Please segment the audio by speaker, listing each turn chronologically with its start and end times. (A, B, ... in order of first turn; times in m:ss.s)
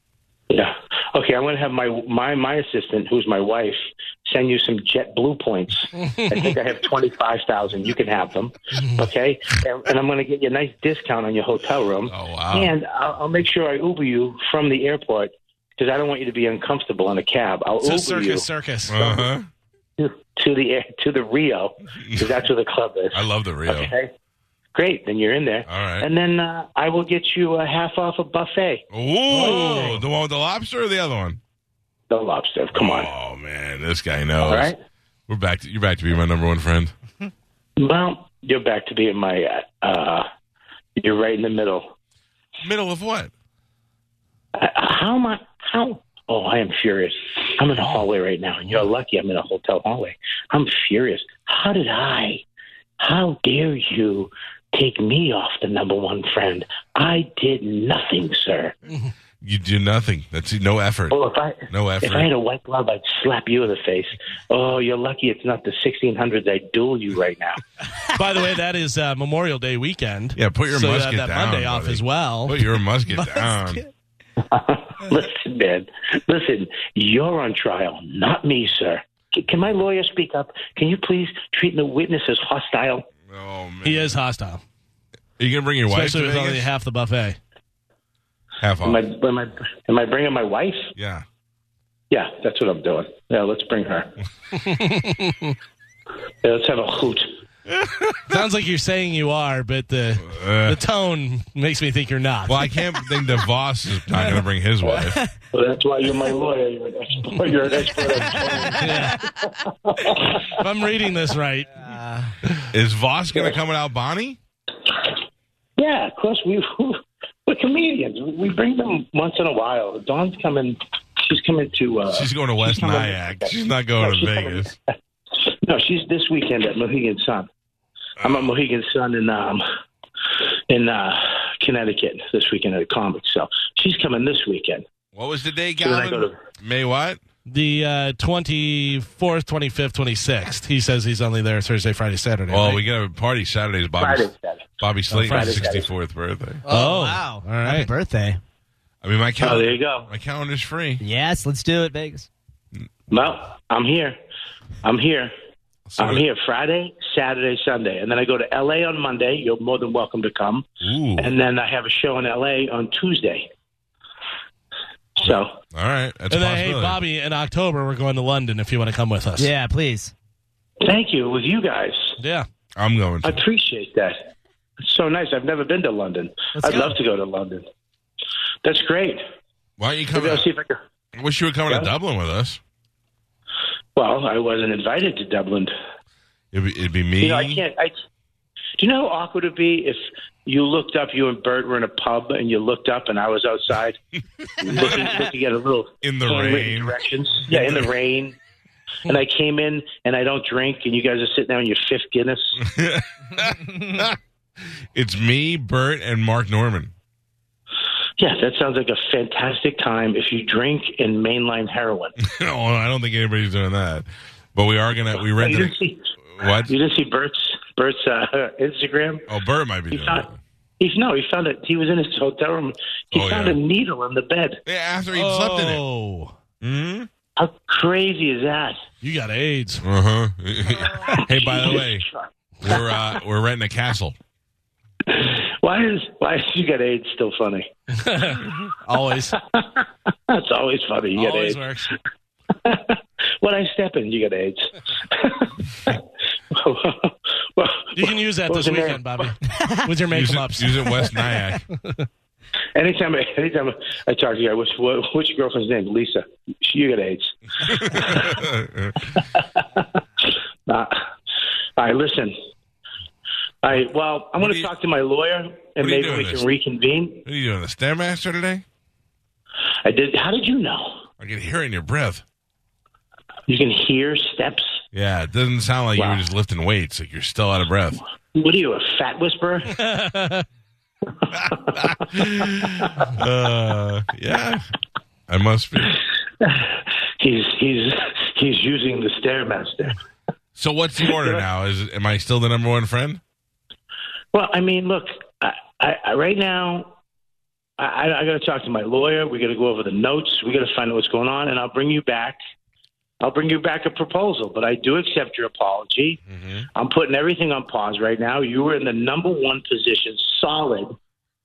0:00.5-0:18.5 A
0:06.0-0:06.4 B
0:12.1-0:12.7 C
0:17.8-0:19.0 B
0:18.9-0:19.5 C
0:20.0-0:24.1 A
0:21.9-0:22.4 C
0:23.1-0:23.9 C
0:24.8-0:28.8 A
0:25.7-0:26.1 C
0:28.9-0:31.4 C
0:29.4-0:30.0 B
0:32.1-0:33.1 A
0:32.7-0:34.7 C
0:34.4-0:34.8 A
0:35.3-0:36.9 C
0:37.8-0:40.3 A
0:41.0-0:41.9 A
0:42.6-0:43.3 C
0:44.6-0:52.4 A
0:53.0-0:58.7 A
0:59.4-1:02.3 C
1:01.1-1:07.6 A
1:08.1-1:12.6 B
1:10.4-1:13.8 C
1:13.2-1:13.5 D
1:14.4-1:23.1 A
1:23.3-1:24.2 C
1:23.8-1:24.6 B
1:25.4-1:26.7 C
1:25.9-1:27.4 B
1:28.6-1:29.0 C
1:28.8-1:30.9 A
1:31.0-1:31.2 C
1:32.1-1:34.2 A
1:34.6-1:35.6 B
1:36.4-1:37.4 A
1:37.7-1:38.4 C
1:38.3-1:42.7 B
1:40.2-1:40.8 C
1:42.5-1:45.2 C
1:45.5-1:50.6 A
1:48.5-1:49.3 D
1:48.7-1:49.2 B
1:50.4-1:51.8 B
1:51.8-1:52.3 D
1:52.6-1:54.4 C
1:55.8-2:04.7 A
2:02.1-2:04.8 C
2:05.4-2:07.5 A
2:08.2-2:08.5 C
2:08.2-2:09.6 A
2:10.7-2:14.8 A
2:15.1-2:17.2 C
2:15.8-2:16.4 A
2:17.5-2:22.8 B
2:22.5-2:24.3 C
2:24.0-2:25.9 A
2:24.8-2:26.6 C
2:26.7-2:27.9 B
2:26.7-2:28.4 D
2:29.0-2:31.0 C
2:29.4-2:30.1 A
2:31.0-2:32.3 D
2:33.1-2:34.2 A
2:34.8-2:35.3 A
2:35.9-2:36.2 C
2:36.0-2:43.5 A
2:40.8-2:41.3 C
2:45.2-2:45.6 A
2:45.2-2:47.0 C
2:46.3-2:49.5 B
2:49.4-2:50.1 D
2:50.8-2:52.2 A
2:52.2-2:52.5 B
2:52.8-2:53.4 C
2:53.2-2:54.3 A
2:54.8-2:57.7 A
2:56.6-2:57.0 D
2:58.6-2:59.2 A
2:59.8-3:00.5 C
3:00.1-3:00.8 A
3:01.2-3:02.6 C
3:04.0-3:05.7 A
3:06.5-3:07.6 C
3:07.2-3:08.0 A
3:08.8-3:14.0 A
3:14.6-3:18.4 A
3:16.0-3:17.0 C
3:17.5-3:17.9 C
3:19.0-3:22.6 A
3:22.6-3:24.2 C
3:24.9-3:26.9 C
3:28.2-3:32.2 A
3:32.2-3:35.7 C
3:35.2-3:39.3 A
3:36.4-3:36.7 C
3:39.3-3:40.4 C
3:39.9-3:40.3 A
3:40.8-3:44.6 A
3:43.1-3:43.6 C
3:44.7-3:45.8 C
3:45.1-3:46.4 B
3:46.6-3:47.1 C
3:47.4-3:48.8 A
3:49.0-3:49.8 B
3:49.8-3:52.0 C
3:50.8-3:53.0 A
3:52.6-3:54.2 C
3:55.1-3:57.7 A
3:57.9-3:59.4 B
3:59.4-4:01.7 A
4:01.2-4:01.9 B
4:02.6-4:09.3 A
4:08.0-4:11.2 B
4:09.5-4:09.8 D
4:10.1-4:11.6 C
4:11.8-4:12.1 B
4:12.8-4:18.4 A
4:17.6-4:19.2 C
4:19.2-4:21.0 A
4:21.8-4:22.4 A
4:23.6-4:27.2 A
4:24.4-4:24.7 C
4:25.8-4:26.5 C
4:27.2-4:28.6 C
4:29.8-4:31.0 A
4:31.2-4:32.2 C
4:33.5-4:34.8 A
4:34.9-4:38.0 C
4:36.0-4:36.2 A
4:38.3-4:39.8 A
4:39.7-4:40.4 B
4:41.2-4:42.0 A
4:41.4-4:44.7 C
4:45.3-4:46.0 C
4:46.4-4:50.0 A
4:50.6-4:53.2 C
4:51.1-4:51.4 A
4:54.3-4:56.9 A
4:57.8-5:02.4 A
5:03.2-5:06.2 A
5:06.3-5:06.7 C
5:06.7-5:11.0 A